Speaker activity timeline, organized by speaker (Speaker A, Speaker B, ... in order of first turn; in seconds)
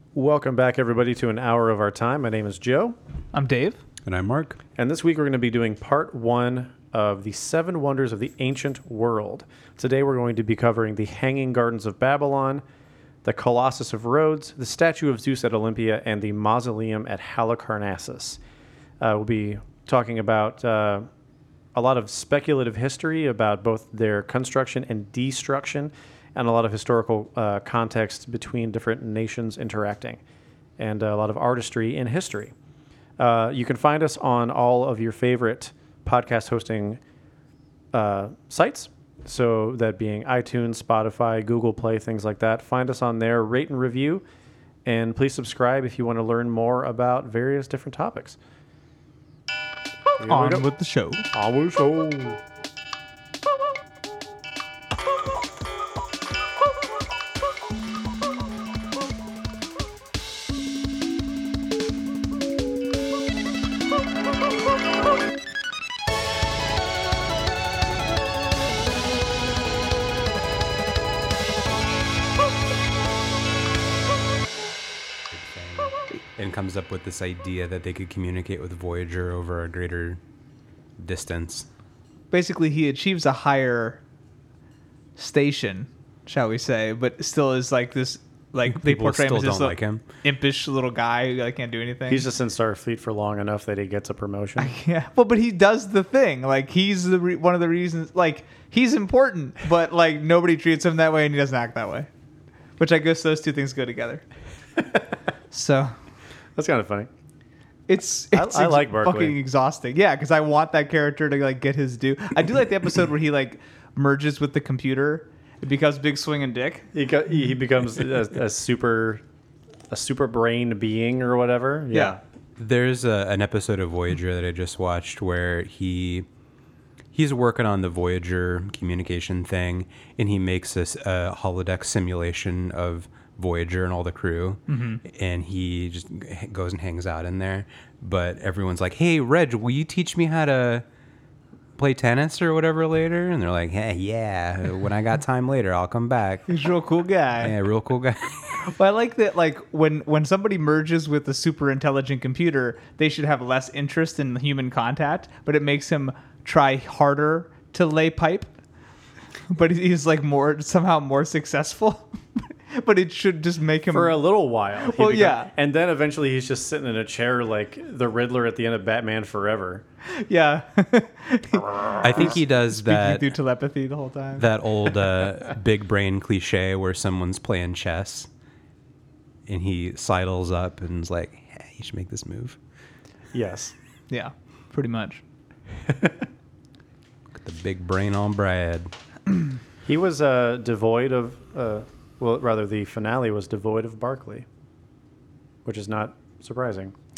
Speaker A: 0.1-3.0, 4.8-12.6, 13.2-18.4, 19.0-21.1, 21.7-30.2, 30.8-32.5, 33.2-37.0, 37.9-44.2, 44.8-48.4, 50.2-50.6, 51.3-52.4, 92.1-94.7, 106.5-107.1, 108.3-109.4, 116.9-119.2, 119.9-122.2, 163.9-169.8, 183.3-183.7, 189.8-194.4, 195.6-196.9
Speaker B: 3.3-3.8, 50.2-51.2, 82.3-84.0, 85.2-92.2, 94.6-102.1, 102.8-104.2, 105.5-106.0, 107.9-116.9, 134.7-135.0, 146.5-147.5, 148.6-158.5, 159.5-164.2, 164.8-165.5, 170.1-174.5, 184.1-185.2
Speaker C: 4.0-4.6, 75.3-80.2, 81.0-81.7, 88.7-90.0, 122.6-126.2, 127.1-140.8, 141.8-146.5, 147.4-148.7, 172.0-173.3, 174.4-178.3, 179.5-182.6, 187.3-188.9